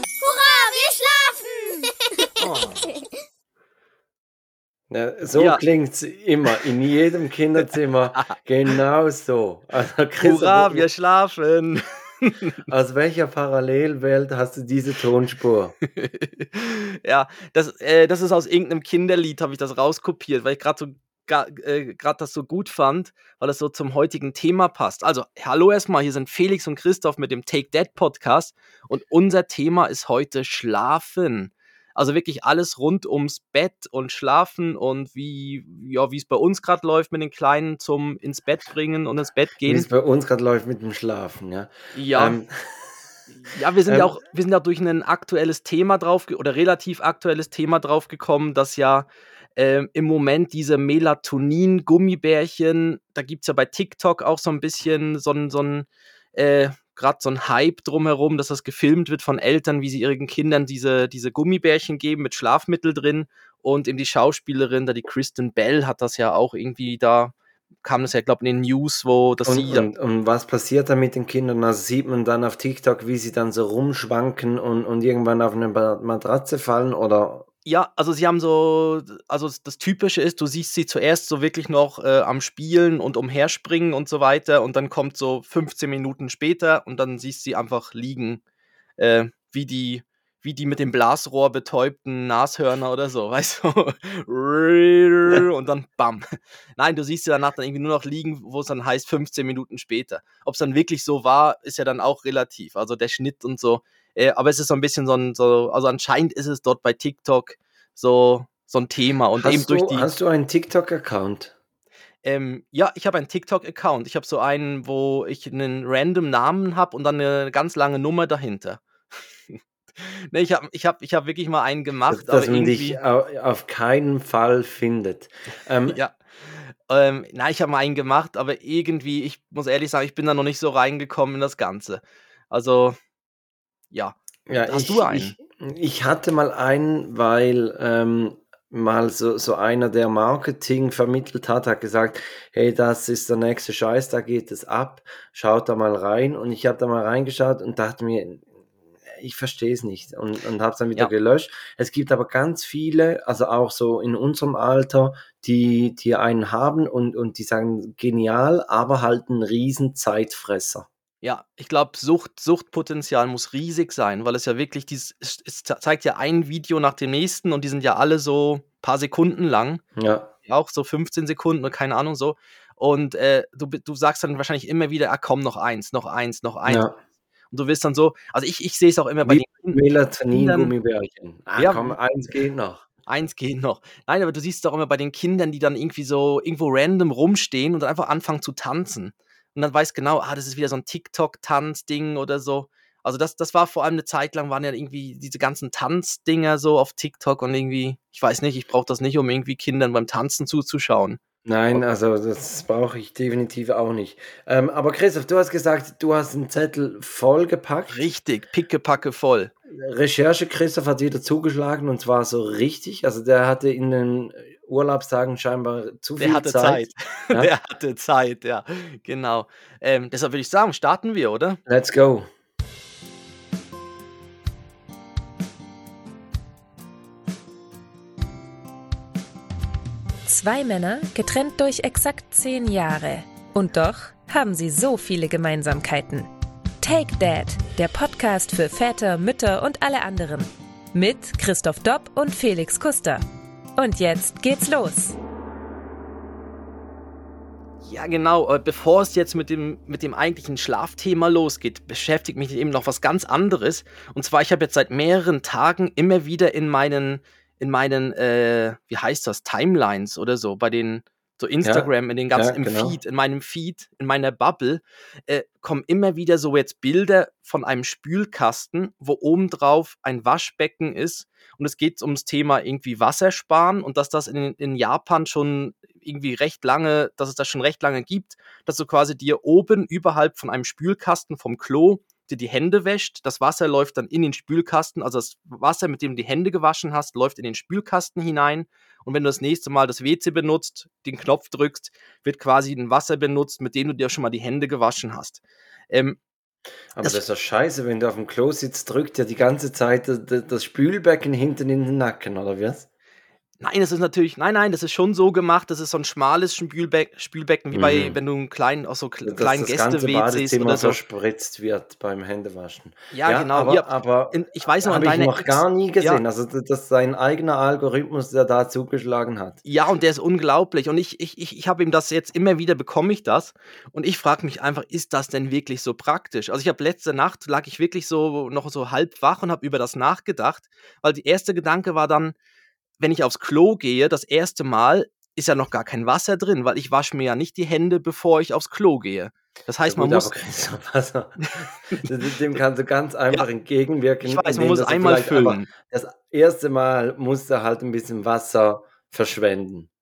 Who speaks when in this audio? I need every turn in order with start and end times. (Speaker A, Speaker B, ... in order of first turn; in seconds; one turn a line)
Speaker A: 0.2-3.0
Speaker B: 4.9-10.9
Speaker C: 5.3-5.6
Speaker C: 10.2-12.6
Speaker B: 12.7-15.8
Speaker C: 15.9-39.9
Speaker B: 39.6-43.0
Speaker C: 41.9-42.4
Speaker C: 43.4-69.9
Speaker B: 43.9-44.1
Speaker B: 69.5-77.5
Speaker C: 77.6-88.4
Speaker C: 89.0-110.1
Speaker B: 109.3-111.5
Speaker C: 112.2-118.8
Speaker C: 119.5-123.0
Speaker B: 122.1-126.0
Speaker C: 125.9-133.0
Speaker C: 133.9-135.3
Speaker B: 134.5-148.5
Speaker B: 149.1-160.9
Speaker C: 161.2-169.8
Speaker B: 169.9-170.3
Speaker C: 170.4-176.8
Speaker B: 176.7-176.9
Speaker C: 177.5-179.8
Speaker B: 179.2-182.8
Speaker C: 180.3-180.7
Speaker C: 181.6-181.9
Speaker C: 183.1-201.2
Speaker B: 201.4-208.0
Speaker C: 207.9-209.5
Speaker B: 209.7-217.5
Speaker C: 216.2-221.6
Speaker B: 221.7-222.3
Speaker D: 230.2-236.3
Speaker D: 236.8-243.2
Speaker D: 243.8-245.2
Speaker C: 247.8-295.4
Speaker B: 261.6-263.0
Speaker C: 295.9-296.2
Speaker B: 296.9-302.9
Speaker C: 303.6-311.0
Speaker B: 307.7-308.2
Speaker B: 309.2-319.6
Speaker C: 313.1-316.2
Speaker C: 319.6-332.4
Speaker C: 333.0-340.3
Speaker B: 339.9-349.9
Speaker C: 344.2-345.7